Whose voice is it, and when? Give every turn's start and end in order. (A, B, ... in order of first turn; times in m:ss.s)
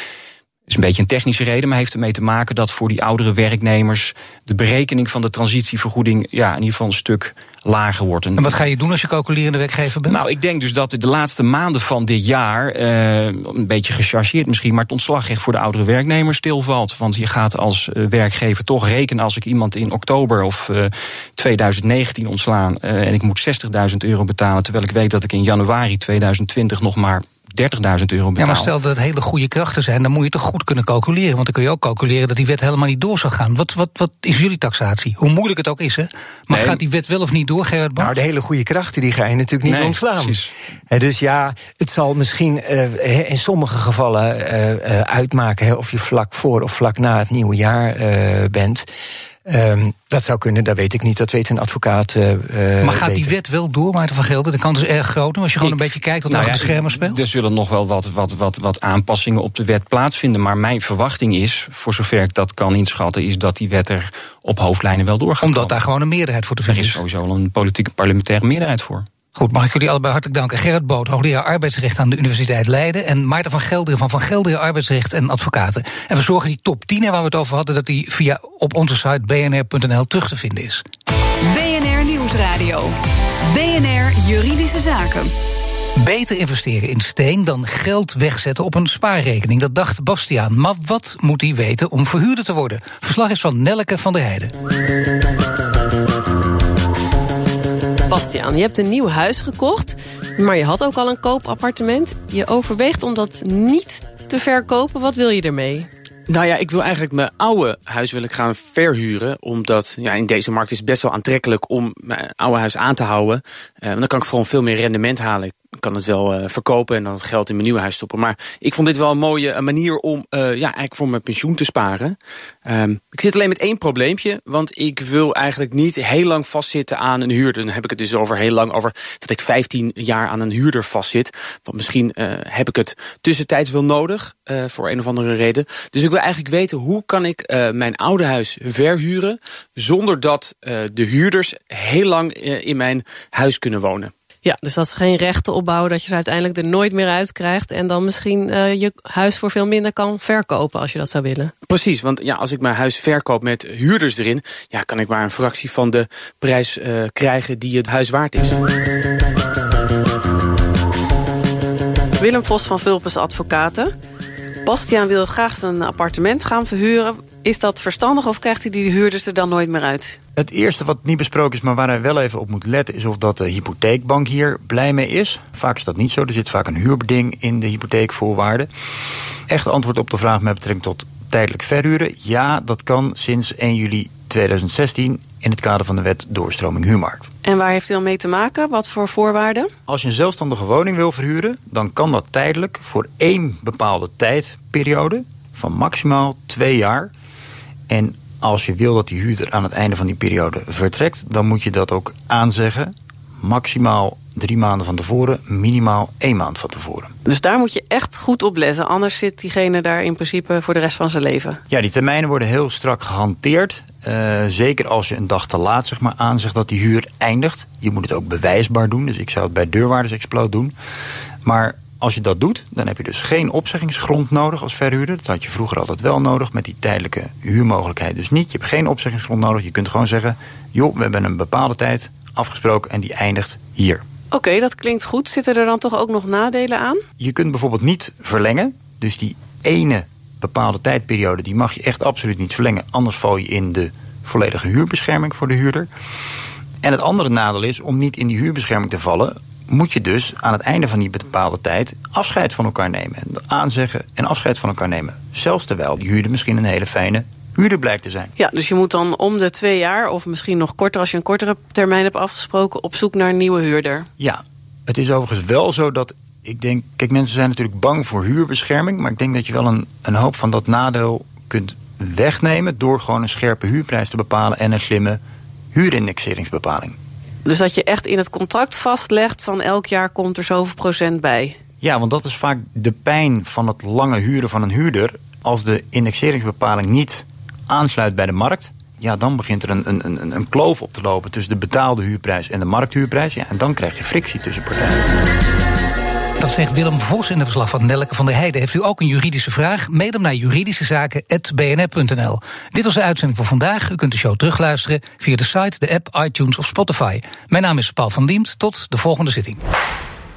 0:00.7-0:08.6 A
0:08.4-0:10.2 B
0:10.1-0:28.7 A
0:28.4-0:38.1 B
0:36.5-0:36.8 A
0:38.0-0:48.9 C
0:39.6-0:40.5 A
0:49.4-0:53.3 C
0:52.8-0:57.2 B
0:55.6-1:05.8 A
1:05.4-1:07.0 B
1:06.7-1:09.1 A
1:09.4-1:20.8 B
1:21.4-1:25.3 D
1:26.0-1:34.5 B
1:38.1-1:45.9 E
1:46.3-2:24.1 F
2:24.4-2:31.5 E
2:31.6-2:38.6 F
2:42.2-2:43.9 E
2:44.6-2:50.2 E
2:50.4-2:58.7 G
2:59.5-3:07.3 G
3:07.4-3:09.7 E
3:09.9-3:17.1 G
3:17.9-3:27.1 G
3:27.2-3:31.6 E
3:31.7-3:40.7 G
3:41.4-3:54.0 G
3:54.3-3:57.0 E
3:57.2-4:05.9 G
4:06.8-4:18.3 G
4:18.4-4:24.1 E
4:24.2-4:35.2 G
4:35.7-4:37.0 G
4:37.4-4:41.6 E
4:41.8-4:55.2 G
4:56.4-5:09.6 B